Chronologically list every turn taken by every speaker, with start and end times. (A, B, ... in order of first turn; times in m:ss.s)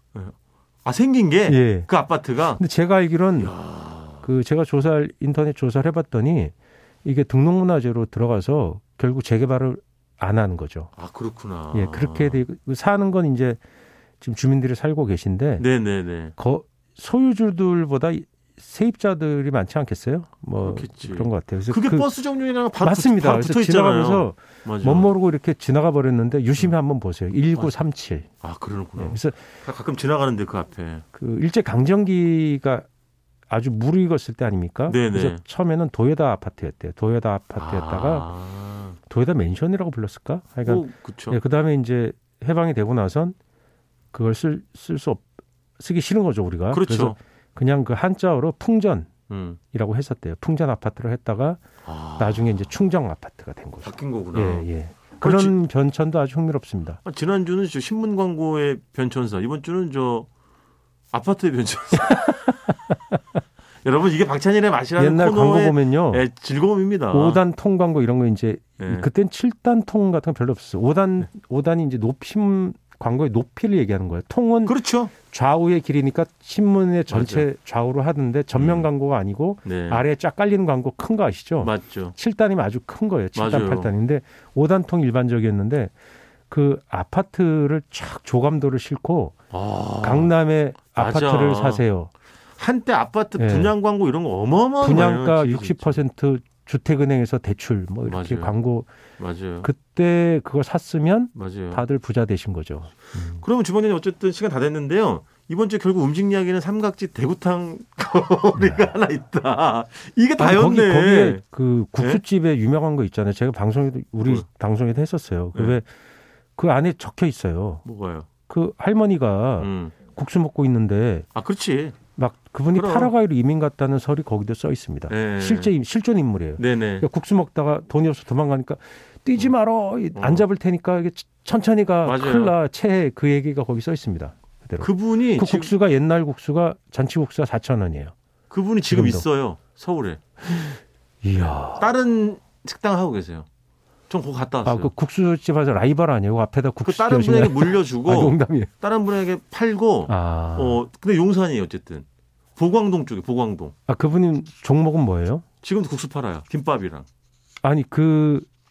0:00.1-0:02.6 A
0:01.5-0:01.9 B
0:02.6-0:03.5 B
0:03.4-0:04.3 A
0:04.2-0:06.5 B
0:07.0-0:10.9 B
0:11.0-0:12.4 A
0:11.7-0:13.6 B
0:14.2-0:15.7 B
0:15.6-0:16.3 A
0:16.4-0:22.1 B
0:20.6-0:25.1 A
0:22.8-0:28.3 B
0:28.4-0:31.0 A
0:29.0-0:29.4 B
0:31.1-0:32.8 B
0:33.5-0:38.3 B
0:34.9-0:35.4 A
0:37.6-0:39.0 A
0:39.1-0:43.4 B
0:40.6-0:41.4 A
0:44.1-0:45.3 B
0:45.8-0:49.1 B
0:46.7-0:47.2 A
0:49.3-0:49.6 A
0:49.7-0:51.6 B
0:51.8-0:52.7 A
0:52.2-0:57.0 B
0:53.8-0:54.7 A
0:55.2-0:55.6 A
0:57.0-1:00.3 A
1:01.1-1:02.5 A
1:02.0-1:02.5 B
1:03.8-1:07.4 A
1:05.0-1:06.2 B
1:07.1-1:25.9 B
1:08.8-1:09.1 A
1:14.6-1:15.1 A
1:17.1-1:17.5 A
1:18.5-1:18.9 A
1:19.6-1:20.0 A
1:21.6-1:22.2 A
1:23.3-1:23.9 A
1:26.5-1:29.3 B
1:29.5-1:30.3 A
1:30.0-1:32.1 B
1:30.9-1:31.8 A
1:32.6-1:36.0 A
1:33.4-1:33.7 B
1:34.8-1:38.9 B
1:38.0-1:38.5 A
1:39.2-1:39.7 A
1:39.6-1:43.4 B
1:41.3-1:41.8 A
1:43.4-1:51.4 A
1:48.5-1:48.9 B
1:50.4-1:55.9 B
1:52.0-1:52.2 A
1:55.5-1:55.8 A
1:56.6-1:57.8 B
1:57.8-1:58.3 A
1:58.5-2:01.3 B
1:59.6-1:59.9 A
2:01.3-2:02.0 A
2:02.2-2:18.1 B
2:02.7-2:03.1 A
2:05.1-2:05.7 A
2:06.6-2:07.1 A
2:10.1-2:10.4 A
2:12.0-2:12.6 A
2:14.8-2:15.7 A
2:18.5-2:20.2 A
2:18.8-2:19.3 B
2:20.4-2:21.9 B
2:21.7-2:23.5 A
2:24.1-2:24.9 A
2:24.6-2:28.7 B
2:26.8-2:32.0 A
2:30.1-2:30.8 B
2:32.6-2:33.7 A
2:33.9-2:35.4 B
2:35.6-2:37.1 A
2:37.6-2:38.5 B